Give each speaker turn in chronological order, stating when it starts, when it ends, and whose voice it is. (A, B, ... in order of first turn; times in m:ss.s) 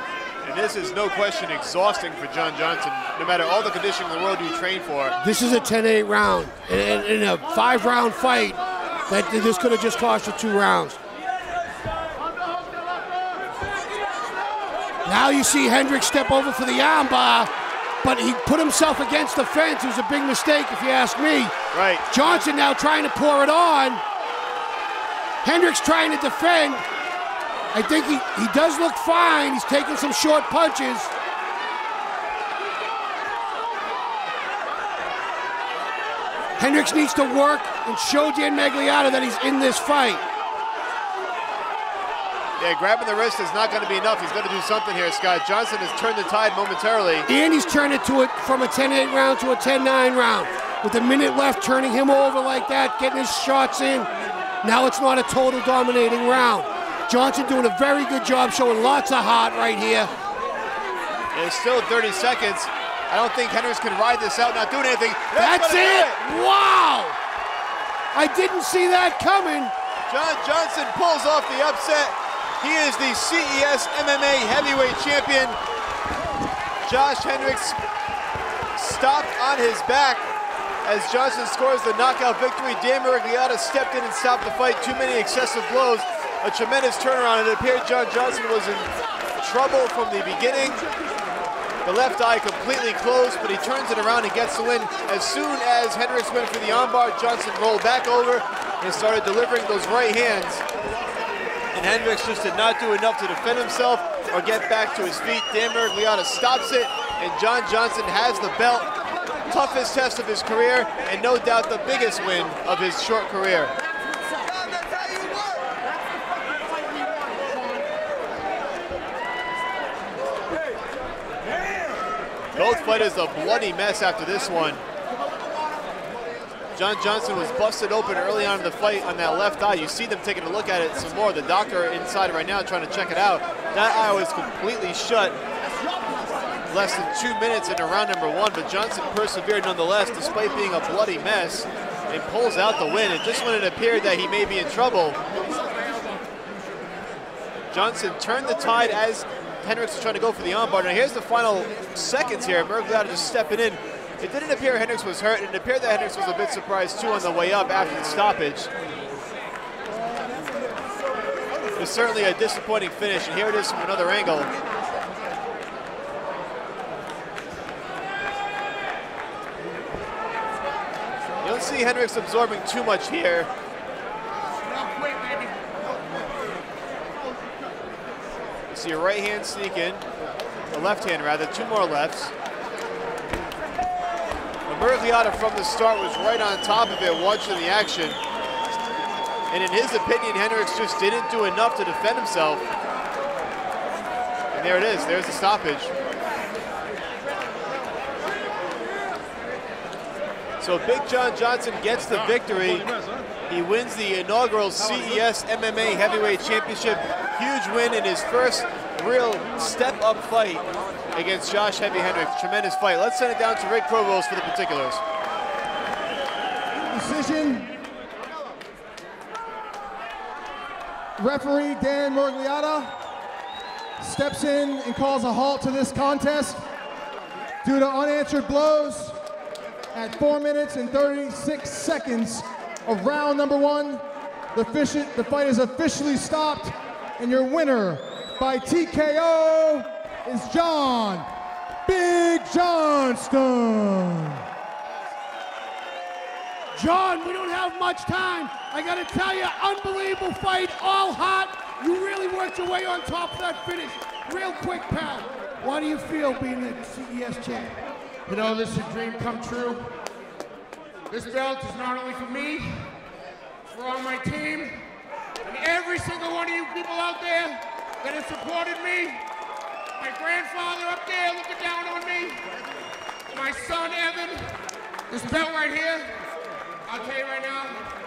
0:00.4-0:05.1 A
0:05.2-0:11.0 B
0:15.0-0:17.5 B
0:18.0-0:21.5 B
0:21.7-0:22.0 A
0:22.1-0:24.0 B
0:25.4-0:26.8 B
0:27.7-0:31.1 B
0:36.6-0:40.2 B
0:42.6-0:47.3 A
0:47.3-0:54.1 B
0:54.6-1:00.1 B
1:01.3-1:06.2 A
1:05.3-1:07.2 B
1:08.1-1:09.7 B
1:10.1-1:15.6 A
1:16.8-1:17.8 A
1:18.8-1:20.2 A
1:20.8-1:30.8 A
1:31.8-1:40.6 A
1:41.7-1:48.9 A
1:49.5-1:53.7 A
2:02.5-2:04.8 A
2:06.7-2:15.4 A
2:16.7-2:25.2 A
2:27.7-2:38.7 A
2:41.8-2:44.5 A
2:51.4-2:53.5 A
2:54.6-2:55.6 C
2:58.7-3:00.0 A
3:00.7-3:02.3 A
3:04.7-3:08.2 A
3:09.5-3:12.6 A
3:14.5-3:15.9 A
3:20.6-3:22.9 A
3:23.5-3:35.0 A
3:36.8-3:37.7 D
3:41.2-3:42.9 D
3:44.0-3:46.6 D
3:47.6-3:49.2 D
3:49.9-4:01.3 D
4:01.8-4:04.4 D
4:06.7-4:17.8 B
4:18.3-4:20.0 C
4:21.1-4:23.0 C
4:23.7-4:24.9 C
4:25.4-4:29.2 C
4:30.0-4:32.5 C
4:33.3-4:36.2 C
4:36.8-4:37.9 C